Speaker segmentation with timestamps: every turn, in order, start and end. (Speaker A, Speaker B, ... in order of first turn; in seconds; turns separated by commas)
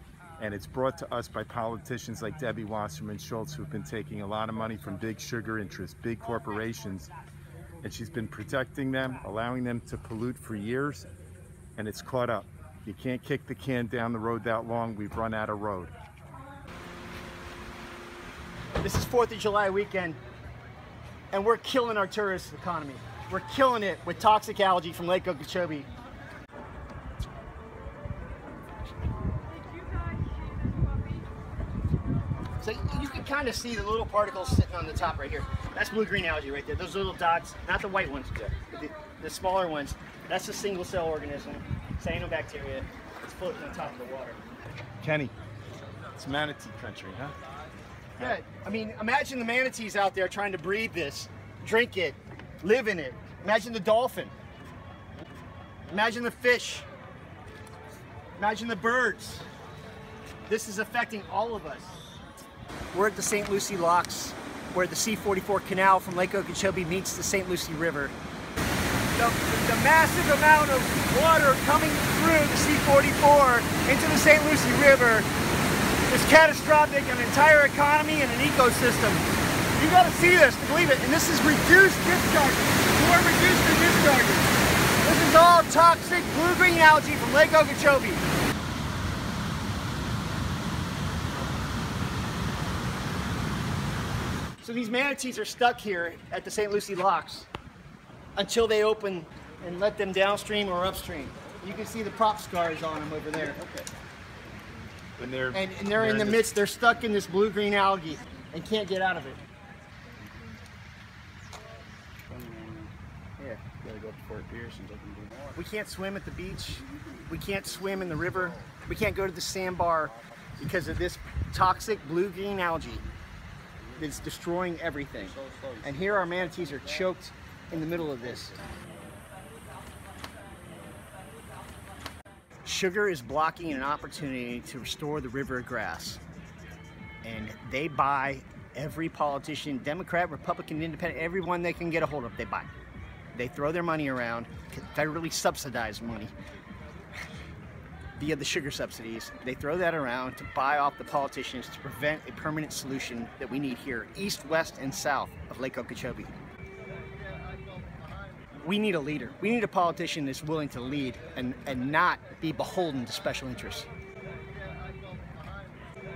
Speaker A: 0.4-7.1, Speaker A: 7.8-11.1, Speaker A: 11.8-15.9, Speaker B: 18.8-20.2, Speaker B: 21.3-25.9, Speaker C: 29.7-30.5, Speaker B: 32.6-44.4, Speaker A: 45.0-45.3, Speaker A: 46.1-47.4, Speaker B: 48.2-54.3, Speaker B: 55.9-56.9, Speaker B: 58.4-59.5, Speaker B: 60.5-62.0, Speaker B: 62.9-68.1, Speaker B: 69.1-75.3, Speaker B: 76.1-88.2, Speaker B: 94.6-97.5, Speaker B: 98.4-103.6, Speaker A: 105.2-106.4, Speaker B: 105.5-109.4, Speaker C: 112.3-115.5, Speaker B: 115.6-123.0, Speaker B: 124.0-128.6, Speaker B: 132.7-136.2, Speaker B: 137.2-142.7, Speaker B: 143.3-146.3, Speaker B: 148.2-156.4, Speaker B: 158.6-163.9